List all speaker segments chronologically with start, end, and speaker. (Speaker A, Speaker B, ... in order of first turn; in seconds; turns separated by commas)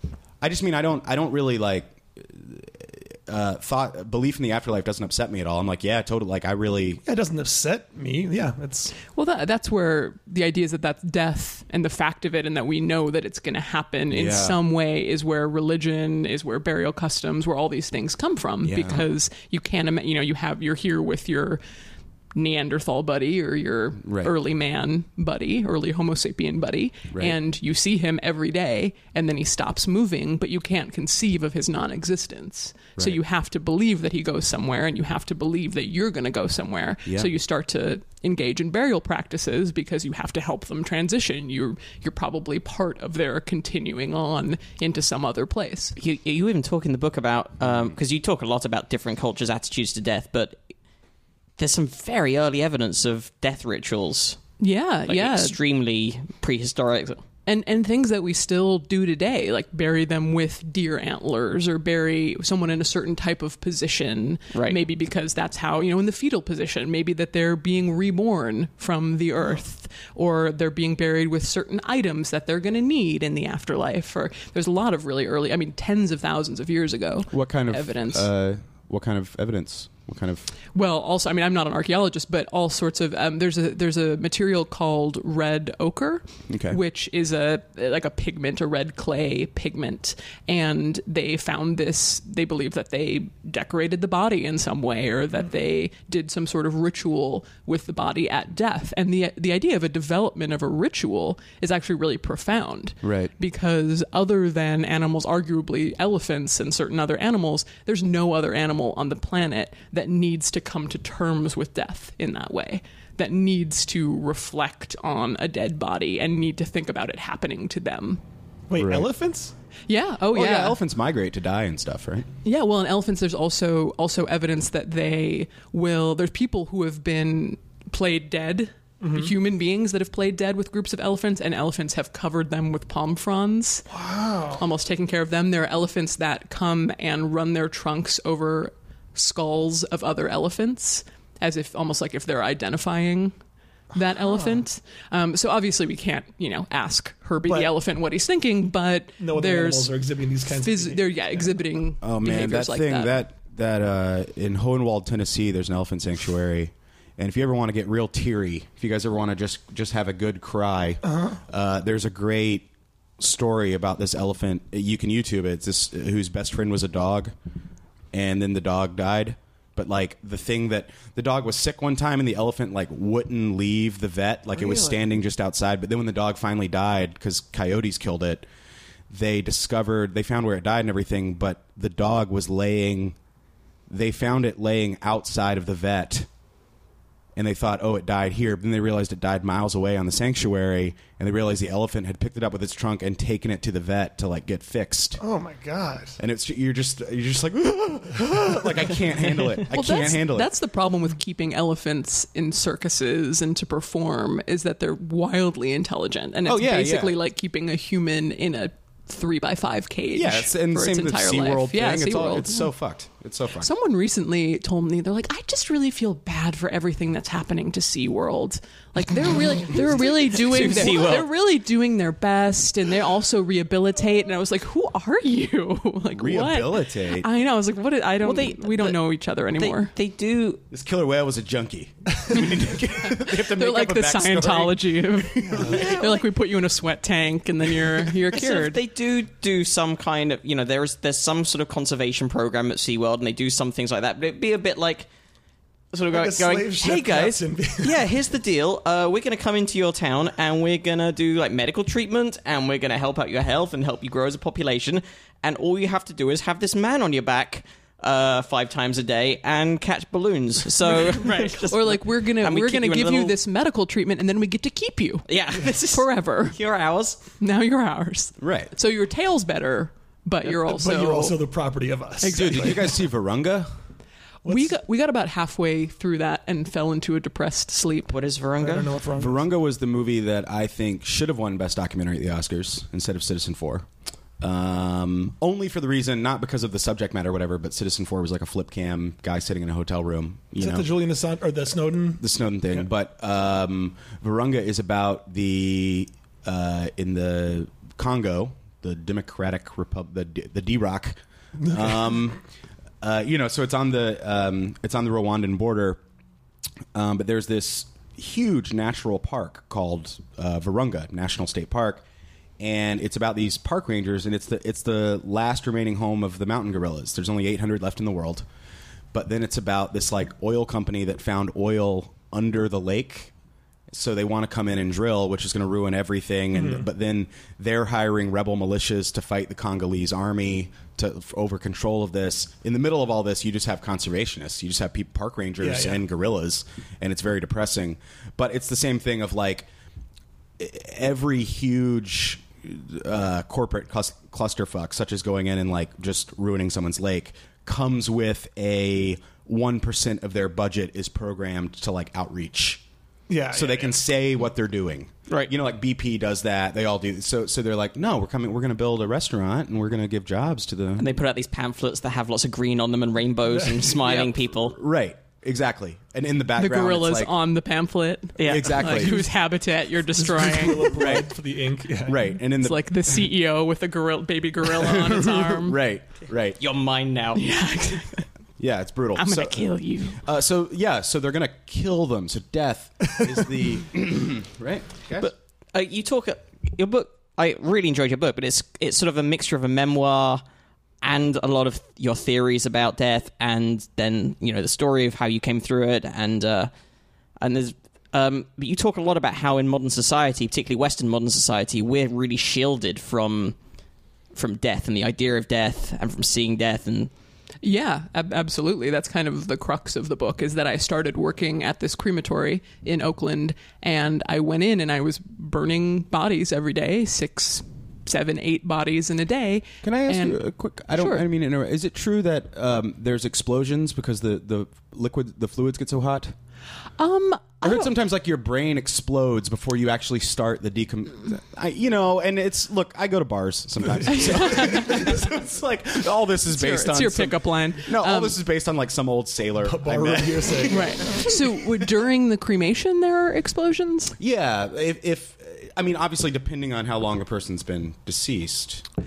Speaker A: 0.4-7.0, Speaker B: 7.0-8.9, Speaker C: 9.1-21.6, Speaker A: 14.1-14.6, Speaker A: 18.6-19.0, Speaker C: 22.4-46.0, Speaker A: 24.0-24.3, Speaker D: 46.0-50.6, Speaker D: 51.6-54.4, Speaker C: 54.6-55.6, Speaker D: 55.1-57.2, Speaker C: 57.5-78.3, Speaker D: 64.5-64.8, Speaker A: 77.3-80.5, Speaker C: 80.7-118.2, Speaker A: 86.5-86.8, Speaker A: 103.0-103.3, Speaker B: 118.7-119.5, Speaker A: 118.8-119.1, Speaker C: 119.9-120.8, Speaker A: 120.3-122.3, Speaker C: 122.4-133.9, Speaker B: 129.0-129.3, Speaker B: 133.9-134.6, Speaker C: 134.6-143.3, Speaker C: 143.9-153.2, Speaker B: 144.2-144.6, Speaker B: 147.5-147.7, Speaker B: 149.2-151.4, Speaker A: 152.0-162.7, Speaker B: 161.1-161.4, Speaker A: 163.2-167.3, Speaker A: 168.1-178.5, Speaker B: 174.6-175.0, Speaker A: 179.1-183.2, Speaker A: 183.9-186.3, Speaker A: 187.4-195.2, Speaker B: 195.2-196.2, Speaker A: 196.2-200.5, Speaker C: 199.7-212.7, Speaker A: 206.4-207.2, Speaker A: 210.1-213.7, Speaker C: 213.6-229.9, Speaker D: 220.0-221.3, Speaker A: 226.1-227.3, Speaker D: 228.2-229.0, Speaker D: 229.6-230.6, Speaker A: 230.7-235.8, Speaker C: 233.0-238.8, Speaker B: 235.5-235.8, Speaker D: 235.6-236.3, Speaker D: 238.3-245.1, Speaker D: 245.9-263.4, Speaker B: 246.1-248.1, Speaker C: 260.9-266.6, Speaker D: 265.3-267.2, Speaker C: 267.4-271.4, Speaker A: 268.4-268.7, Speaker B: 270.6-272.9, Speaker A: 272.2-273.7, Speaker B: 274.4-274.7, Speaker C: 274.5-278.1, Speaker D: 278.1-278.9, Speaker B: 278.6-279.4, Speaker A: 279.2-283.9, Speaker A: 284.4-290.9, Speaker B: 290.6-292.8, Speaker A: 292.2-302.4, Speaker A: 303.0-306.0, Speaker A: 306.9-312.0, Speaker A: 312.6-318.4, Speaker A: 319.1-323.3, Speaker A: 323.9-339.7, Speaker B: 326.5-326.9, Speaker B: 335.6-336.0, Speaker A: 340.6-352.8, Speaker B: 353.3-354.0, Speaker A: 353.5-361.1, Speaker D: 361.0-364.8, Speaker A: 364.6-367.3, Speaker C: 366.6-371.2, Speaker D: 368.4-369.2, Speaker A: 368.4-369.2, Speaker B: 370.1-372.2, Speaker A: 370.9-371.3, Speaker A: 372.0-372.8, Speaker C: 372.6-375.8, Speaker A: 374.7-376.6, Speaker D: 376.6-377.5, Speaker C: 377.4-378.3, Speaker A: 378.6-385.3, Speaker C: 379.2-380.2, Speaker D: 385.2-390.4, Speaker D: 391.0-396.7, Speaker D: 397.4-403.6, Speaker D: 404.4-407.1, Speaker C: 407.6-421.2, Speaker A: 419.8-426.4, Speaker C: 427.0-427.9, Speaker A: 427.6-441.3, Speaker C: 434.1-435.2, Speaker C: 436.5-438.4, Speaker B: 439.6-441.3, Speaker C: 440.7-444.1, Speaker A: 444.2-448.8